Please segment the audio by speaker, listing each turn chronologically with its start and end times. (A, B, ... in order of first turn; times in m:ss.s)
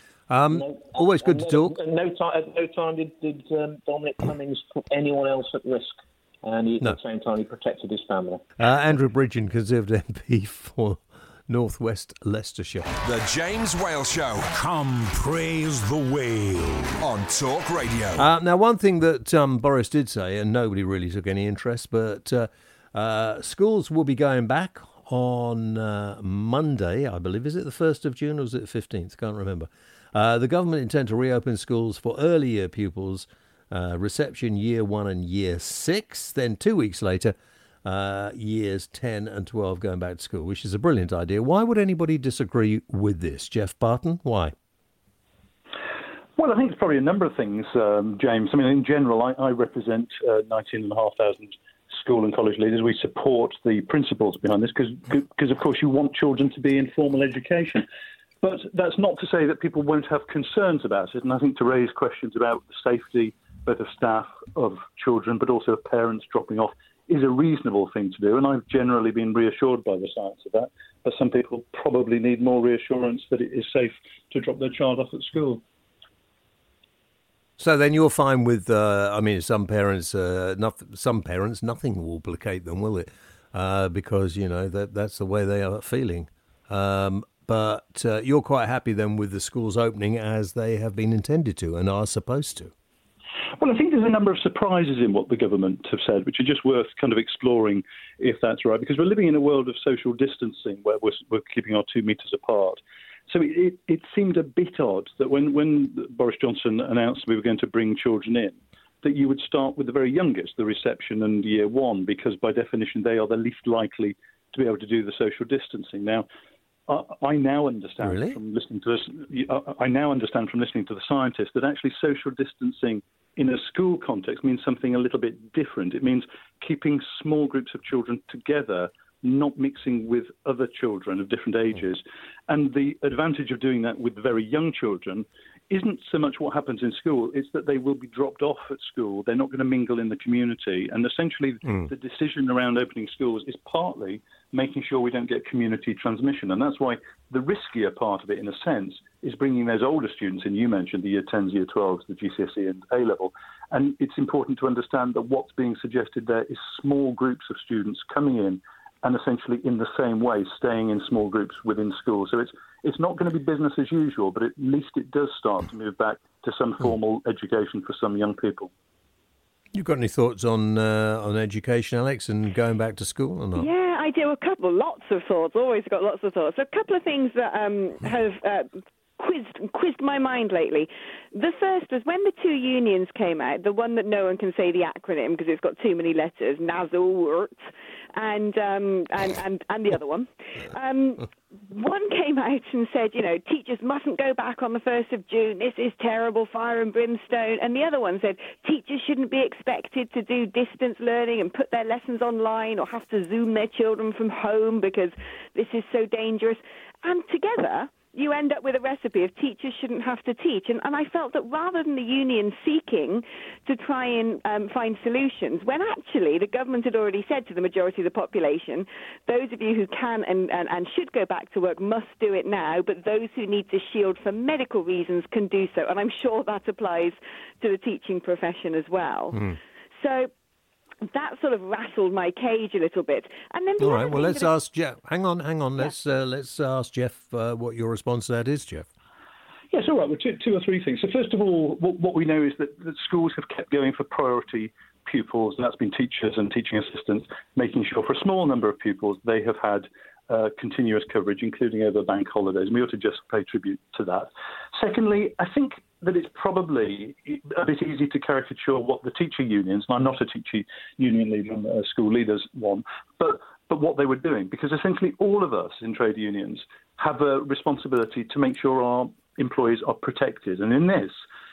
0:00.3-0:01.8 A
0:00.5-0:08.4 B
0:08.6-0:12.9 A
0:13.0-0:14.6 C
0:14.5-0:16.9 D
0:17.0-0:18.2 C
0:18.2-0:44.5 A
0:46.4-0:57.8 E
0:58.4-1:15.6 E
1:17.6-1:32.7 A
1:33.6-1:56.3 E
1:56.9-2:48.7 E
1:58.0-1:58.4 A
2:49.7-2:53.7 A
2:53.6-3:07.6 F
3:08.1-3:49.4 F
3:50.0-3:50.3 F
3:51.0-3:54.5 F
3:53.8-3:58.9 A
3:59.7-4:31.1 E